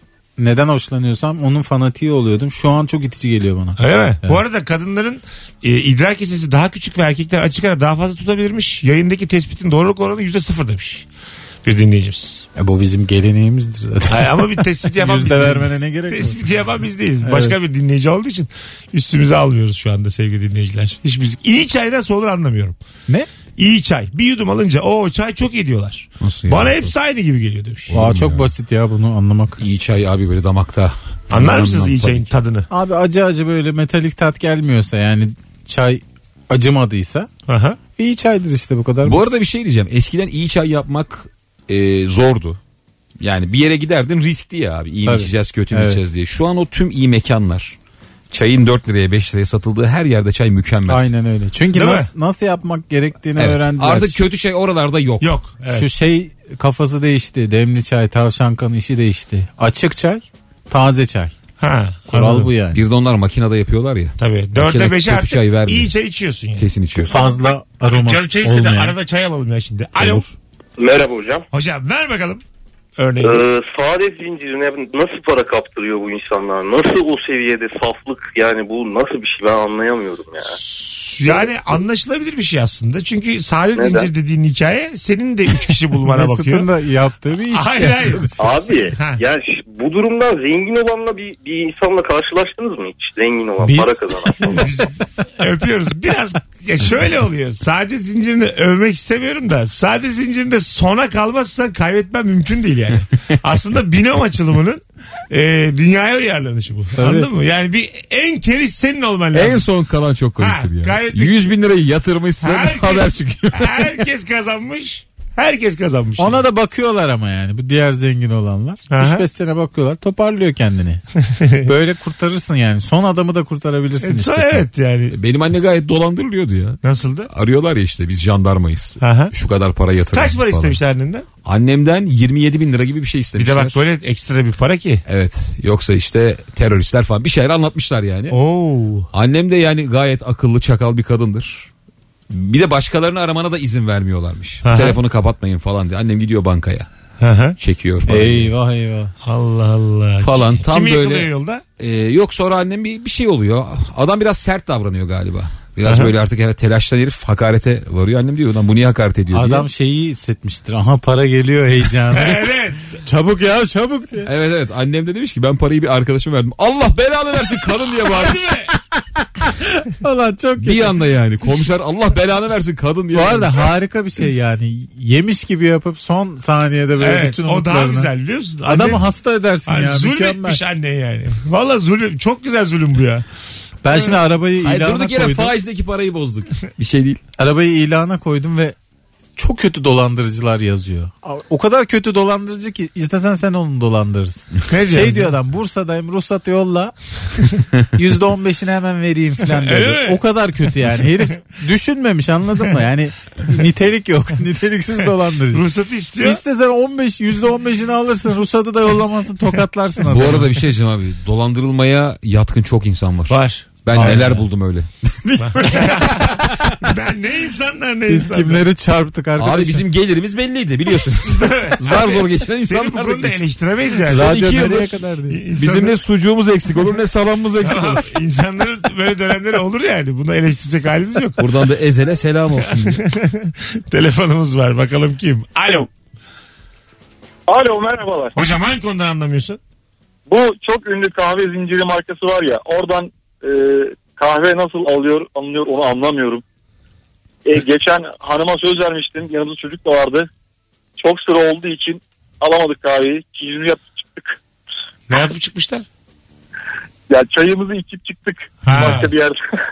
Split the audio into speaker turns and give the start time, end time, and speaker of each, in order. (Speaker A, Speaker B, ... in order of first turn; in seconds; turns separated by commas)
Speaker A: 0.4-4.4, Speaker B: 3.8-11.1, Speaker B: 11.6-12.4, Speaker A: 12.6-16.4, Speaker B: 14.1-22.8, Speaker A: 17.2-17.6, Speaker B: 23.6-27.9, Speaker C: 26.2-26.9, Speaker C: 27.9-28.5, Speaker A: 27.9-29.6, Speaker C: 29.6-32.3, Speaker B: 31.3-32.7, Speaker A: 32.7-37.3, Speaker B: 37.5-37.8, Speaker A: 38.0-39.3, Speaker C: 39.0-42.6, Speaker C: 43.2-47.8, Speaker A: 45.0-46.0, Speaker C: 48.3-51.1, Speaker A: 50.9-54.2, Speaker B: 51.7-52.1, Speaker C: 53.4-55.3, Speaker B: 55.2-55.9, Speaker A: 55.7-61.3, Speaker B: 61.6-62.5, Speaker A: 62.1-62.8, Speaker C: 62.7-65.9, Speaker B: 64.2-70.3, Speaker C: 66.6-67.2, Speaker A: 67.1-69.0, Speaker A: 70.0-70.3, Speaker D: 70.8-71.5, Speaker B: 71.5-72.4, Speaker B: 73.0-73.4, Speaker D: 73.2-80.6, Speaker B: 80.5-86.7, Speaker D: 81.2-81.7, Speaker D: 83.8-84.1, Speaker A: 86.1-88.5, Speaker B: 87.5-88.3, Speaker D: 88.4-94.7, Speaker B: 88.9-89.2, Speaker B: 93.6-109.7, Speaker A: 107.0-107.3, Speaker C: 109.3-113.9, Speaker B: 110.4-111.5, Speaker B: 112.4-116.4, Speaker A: 116.2-121.0, Speaker B: 118.9-119.2, Speaker B: 121.2-121.7, Speaker A: 121.6-124.6, Speaker B: 124.0-125.2, Speaker C: 125.1-126.8, Speaker B: 126.8-127.3, Speaker C: 127.3-130.8, Speaker B: 129.0-129.3, Speaker B: 130.1-131.2, Speaker C: 131.4-133.8, Speaker B: 133.4-135.0, Speaker C: 135.1-138.4, Speaker B: 138.3-139.1, Speaker C: 139.1-141.7, Speaker C: 142.3-146.9, Speaker B: 144.6-145.0, Speaker B: 147.2-147.6, Speaker C: 147.6-148.5, Speaker A: 148.1-149.1, Speaker B: 149.2-151.6, Speaker C: 150.2-159.7, Speaker B: 155.8-156.1, Speaker A: 159.3-162.5, Speaker B: 162.1-163.0, Speaker A: 163.0-164.3, Speaker C: 164.2-168.5, Speaker B: 168.0-168.7, Speaker A: 169.2-170.9, Speaker C: 170.6-173.7, Speaker A: 173.1-178.1, Speaker B: 177.0-179.1, Speaker A: 178.6-180.6, Speaker B: 179.7-183.2, Speaker A: 183.8-185.5, Speaker C: 184.6-187.2, Speaker A: 187.4-188.8, Speaker A: 189.4-196.9, Speaker B: 194.7-195.3, Speaker A: 197.9-205.6, Speaker B: 199.5-200.2, Speaker B: 205.5-206.4, Speaker A: 206.2-210.5, Speaker C: 210.1-216.8, Speaker B: 213.3-214.4, Speaker A: 213.9-214.3, Speaker B: 215.4-218.6, Speaker A: 218.1-219.8, Speaker C: 219.4-223.4, Speaker B: 221.2-224.4, Speaker C: 224.0-225.0, Speaker A: 224.1-225.4, Speaker B: 225.3-225.9, Speaker C: 225.6-228.1, Speaker B: 227.6-231.5, Speaker C: 231.4-233.0, Speaker B: 232.6-235.9, Speaker E: 237.5-238.3, Speaker B: 238.3-239.6, Speaker E: 240.3-246.4, Speaker E: 247.4-250.3, Speaker E: 251.0-254.4, Speaker B: 255.1-255.8, Speaker E: 257.1-259.4, Speaker B: 258.6-259.1